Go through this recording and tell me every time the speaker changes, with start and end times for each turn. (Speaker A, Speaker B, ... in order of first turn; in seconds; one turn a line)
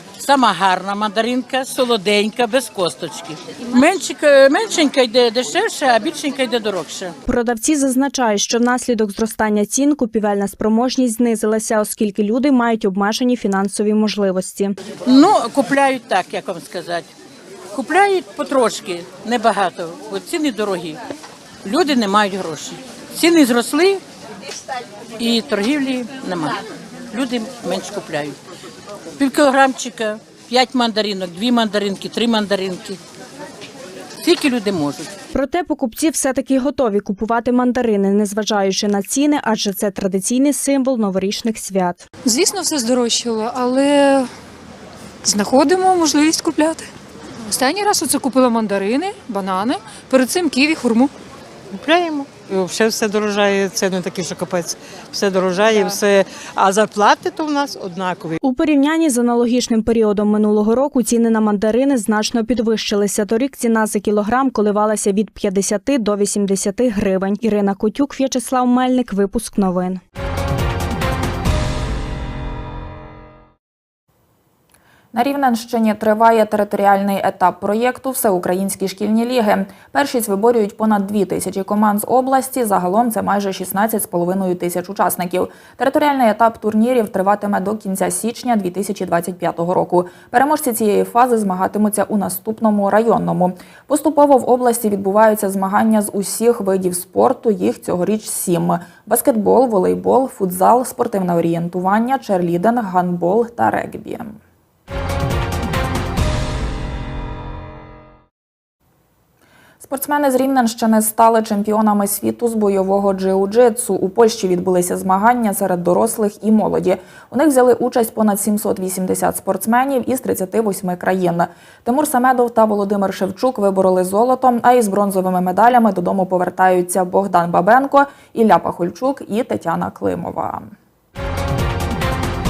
Speaker A: 0.2-7.2
Speaker B: 7.3-14.8
Speaker A: 15.1-17.1
Speaker A: 17.7-21.0
Speaker A: 21.6-24.0
Speaker A: 25.2-26.6
Speaker A: 27.1-28.4
Speaker A: 29.2-33.0
Speaker A: 34.2-35.1
Speaker B: 35.3-42.0
Speaker C: 42.2-44.3
Speaker C: 45.2-46.9
Speaker C: 47.5-51.1
Speaker D: 51.8-58.4
Speaker C: 55.8-56.0
Speaker B: 58.4-70.0
Speaker E: 75.1-104.4
Speaker E: 109.8-130.7